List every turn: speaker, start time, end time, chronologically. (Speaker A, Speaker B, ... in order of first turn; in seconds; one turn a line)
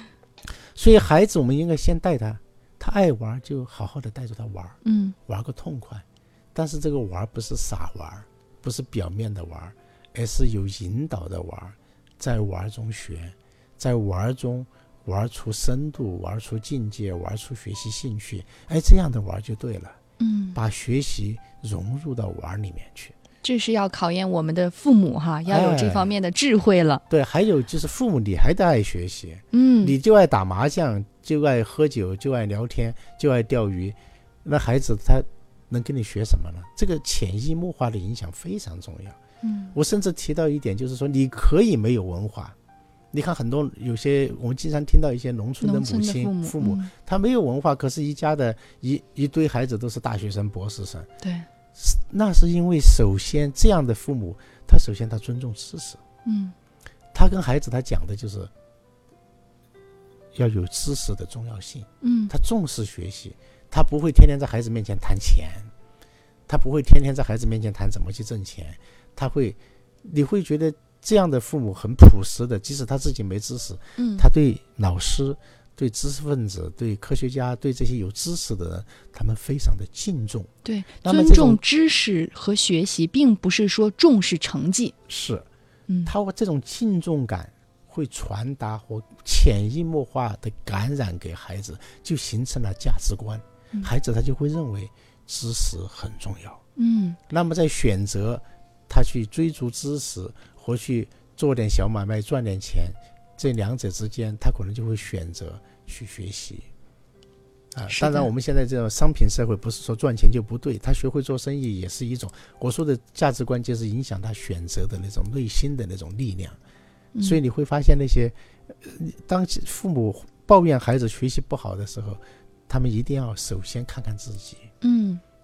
Speaker A: 0.8-20.0
Speaker B: 4.8-5.2
Speaker B: 20.2-20.6
Speaker A: 20.6-23.1
Speaker B: 23.4-27.0
Speaker A: 25.5-26.1
Speaker A: 27.1-39.2
Speaker B: 29.5-29.9
Speaker B: 39.4-39.8
Speaker A: 39.7-42.6
Speaker A: 43.1-51.1
Speaker B: 45.6-46.9
Speaker B: 51.2-51.5
Speaker A: 51.8-56.0
Speaker B: 56.2-56.5
Speaker A: 57.1-58.5
Speaker A: 60.4-65.7
Speaker B: 62.0-62.3
Speaker A: 66.5-81.6
Speaker B: 74.0-74.2
Speaker B: 80.7-85.0
Speaker A: 85.1-85.5
Speaker B: 85.9-86.1
Speaker A: 86.1-96.6
Speaker B: 96.8-97.2
Speaker A: 97.3-106.7
Speaker A: 107.7-116.6
Speaker B: 107.9-108.3
Speaker B: 117.2-117.4
Speaker A: 117.2-124.7
Speaker B: 124.8-125.2